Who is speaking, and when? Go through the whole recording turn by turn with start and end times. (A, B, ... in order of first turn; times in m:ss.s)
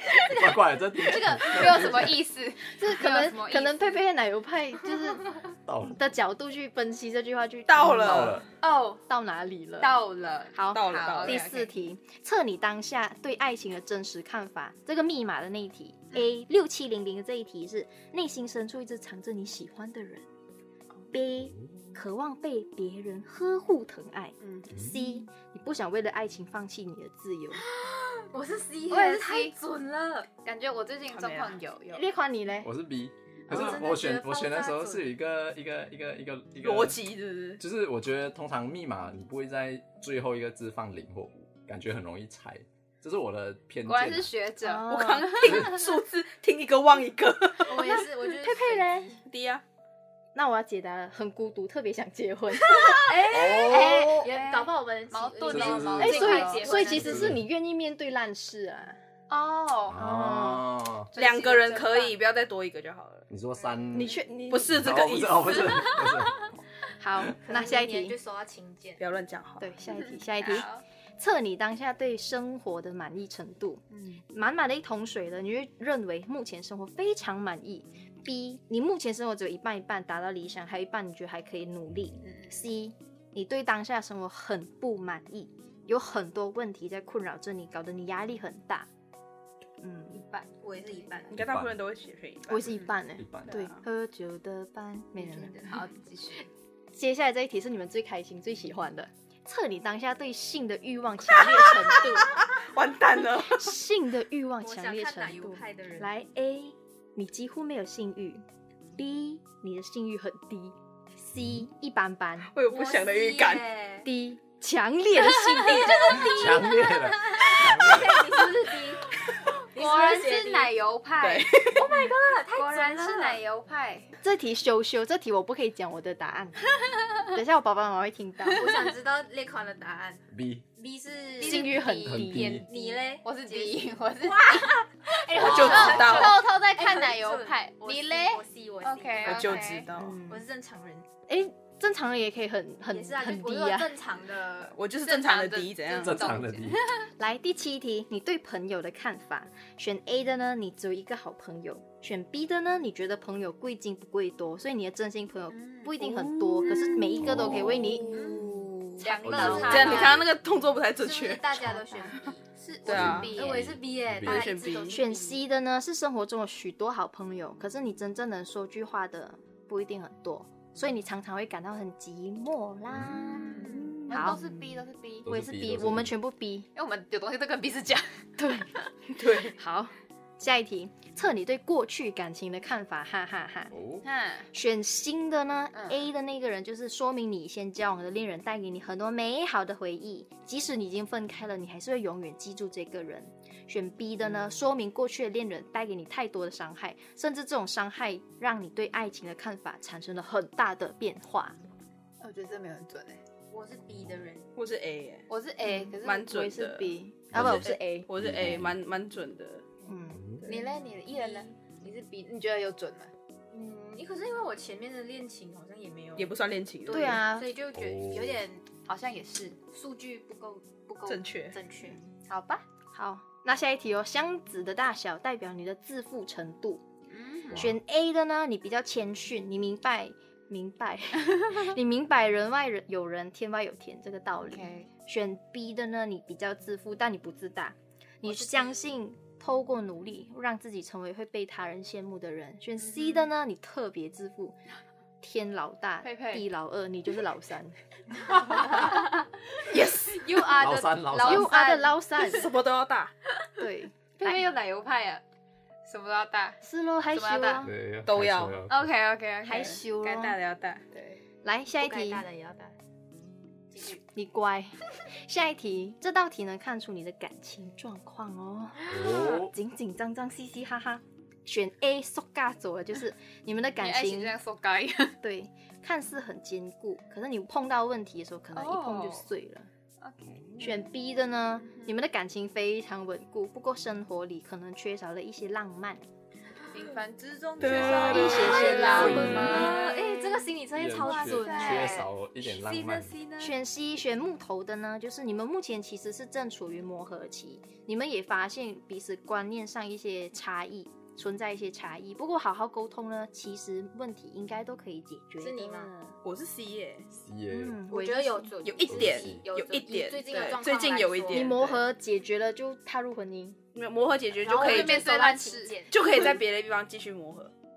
0:00.2-0:02.2 A
0:00.3-0:04.0 B
0:02.7-0:05.4 C
0:05.7-0:06.0 A
0:05.9-0:08.4 C
0:07.7-0:08.5 D
0:07.9-0:08.5 A
0:08.6-0:09.0 B
0:09.1-0:10.0 C
0:09.8-0:11.7 B
0:10.6-0:20.3 C
0:10.7-0:11.4 D
0:21.1-0:27.6 C
0:24.7-0:25.0 A
0:28.3-0:30.3 E
0:28.9-0:32.0 B
0:31.1-0:31.6 D
0:31.9-0:32.7 C
0:32.6-0:37.0 A
0:33.5-0:35.1 E
0:33.8-0:34.1 B
0:36.6-0:37.6 D
0:37.6-0:44.3 A
0:43.8-0:45.6 B
0:44.6-0:45.4 C
0:44.9-0:47.9 D
0:47.7-0:49.1 E
0:47.8-0:49.2 C
0:49.2-0:49.6 D
0:50.3-0:53.4 C
0:53.1-0:57.4 E
0:53.1-0:54.3 A
0:54.2-0:57.1 B
0:55.5-0:57.4 A
0:56.0-0:59.0 C
0:59.3-1:00.1 B
0:59.9-1:01.1 A
1:00.0-1:00.6 C
1:01.1-1:02.2 B
1:01.2-1:03.3 D
1:03.3-1:06.6 A
1:03.9-1:04.7 C
1:04.5-1:05.7 D
1:07.0-1:08.2 C
1:07.4-1:09.0 E
1:09.0-1:09.7 D
1:09.6-1:28.9 C
1:10.1-1:10.8 B
1:22.2-1:22.6 B
1:29.8-1:30.2 C
1:30.3-1:31.2 B
1:30.5-1:31.4 E
1:31.3-1:32.6 D
1:31.3-1:31.8 A
1:32.5-1:35.9 C
1:33.2-1:33.6 A
1:33.5-1:33.8 D
1:35.1-1:36.5 B
1:36.9-1:42.4 C
1:41.4-1:43.8 D
1:43.4-1:48.4 C
1:44.6-1:46.1 E
1:49.0-1:52.5 C
1:52.5-1:53.7 D
1:52.7-1:54.1 E
1:54.0-1:56.3 C
1:55.2-1:56.4 B
1:55.7-1:59.1 E
1:56.2-1:58.4 A
1:59.7-2:01.7 B
1:59.7-2:00.8 E
2:01.2-2:02.0 D
2:01.7-2:03.4 E
2:02.5-2:04.2 B
2:04.2-2:08.8 C
2:08.5-2:10.2 E
2:10.3-2:10.6 A
2:10.8-2:11.8 E
2:11.4-2:12.6 C
2:11.4-2:19.9 B
2:11.6-2:12.7 A
2:12.7-2:19.6 E
2:15.4-2:16.4 D
2:19.2-2:20.2 D
2:20.0-2:20.4 C
2:20.3-2:21.1 E
2:21.3-2:23.9 C
2:22.9-2:24.8 E
2:24.7-2:26.4 D
2:24.9-2:27.1 B
2:26.0-2:26.8 A
2:27.2-2:38.4 C
2:36.0-2:36.8 D
2:36.7-2:37.0 B
2:37.2-2:38.0 A
2:38.1-2:38.4 E
2:38.1-2:40.2 B
2:39.0-2:40.2 E
2:39.2-2:40.3 A
2:39.4-2:42.3 D
2:41.0-2:45.4 E
2:42.8-2:43.4 D
2:42.9-2:44.5 A
2:44.2-2:45.0 D
2:44.9-2:54.4 C
2:52.9-2:53.3 A
2:53.3-2:55.3 B
2:53.6-2:54.2 D
2:55.2-2:56.1 A
2:55.3-2:56.7 C
2:56.8-2:58.8 B
2:58.4-2:58.7 C
2:59.2-2:59.6 D
2:59.4-3:03.7 C
3:03.7-3:04.1 A
3:04.0-3:04.5 B
3:04.5-3:21.6 C
3:05.7-3:06.1 B
3:22.2-3:23.2 B
3:23.5-3:24.5 E
3:24.6-3:25.3 D
3:25.3-3:26.3 B
3:25.6-3:28.1 C
3:26.0-3:29.6 D
3:27.3-3:28.8 A
3:29.9-3:30.2 C
3:30.1-3:30.5 A
3:30.4-3:33.1 B
3:31.1-3:31.5 E
3:33.5-3:36.3 E
3:36.2-3:37.2 D
3:36.9-3:38.8 E
3:36.9-3:37.5 C
3:37.7-3:38.5 A
3:38.8-3:39.7 B
3:39.7-3:42.0 E
3:41.1-3:41.6 D
3:41.8-3:42.6 B
3:42.9-3:46.8 C
3:47.1-3:47.7 B
3:47.5-3:47.8 A
3:47.5-4:04.6 C
3:54.4-3:54.9 B
3:58.3-3:58.8 B
4:05.2-4:07.7 C
4:06.0-4:06.4 B
4:08.3-4:12.5 B
4:09.7-4:10.4 D
4:10.6-4:11.5 A
4:11.2-4:12.5 C
4:12.2-4:13.1 D
4:13.3-4:13.6 B
4:13.6-4:14.5 C
4:14.2-4:15.2 B
4:15.8-4:16.6 B
4:16.6-4:17.7 C
4:17.1-4:17.6 B
4:17.6-4:18.8 A
4:18.1-4:18.6 D
4:18.7-4:19.8 B
4:19.4-4:20.4 C
4:20.0-4:20.9 D
4:21.4-4:22.3 C
4:21.8-4:22.8 E
4:23.7-4:24.0 E
4:24.1-4:34.4 C
4:28.9-4:29.5 A
4:33.8-4:35.2 B
4:35.2-4:39.7 C
4:38.5-4:39.3 B
4:40.0-4:40.8 B
4:40.6-4:46.0 C
4:46.7-4:53.6 B
4:47.6-4:49.8 A
4:47.6-4:49.3 D
4:48.0-4:50.1 C
4:48.9-4:52.0 E
4:50.7-4:53.2 A
4:51.4-4:52.0 C
4:53.4-5:06.2 C
5:05.4-5:05.9 E
5:06.2-5:07.1 D
5:07.2-5:07.8 A
5:07.5-5:08.5 C
5:07.9-5:11.5 E
5:08.6-5:11.8 D
5:08.8-5:09.5 A
5:11.3-5:13.6 C
5:13.8-5:15.0 D
5:14.4-5:15.9 E
5:14.6-5:15.8 B
5:15.9-5:17.5 D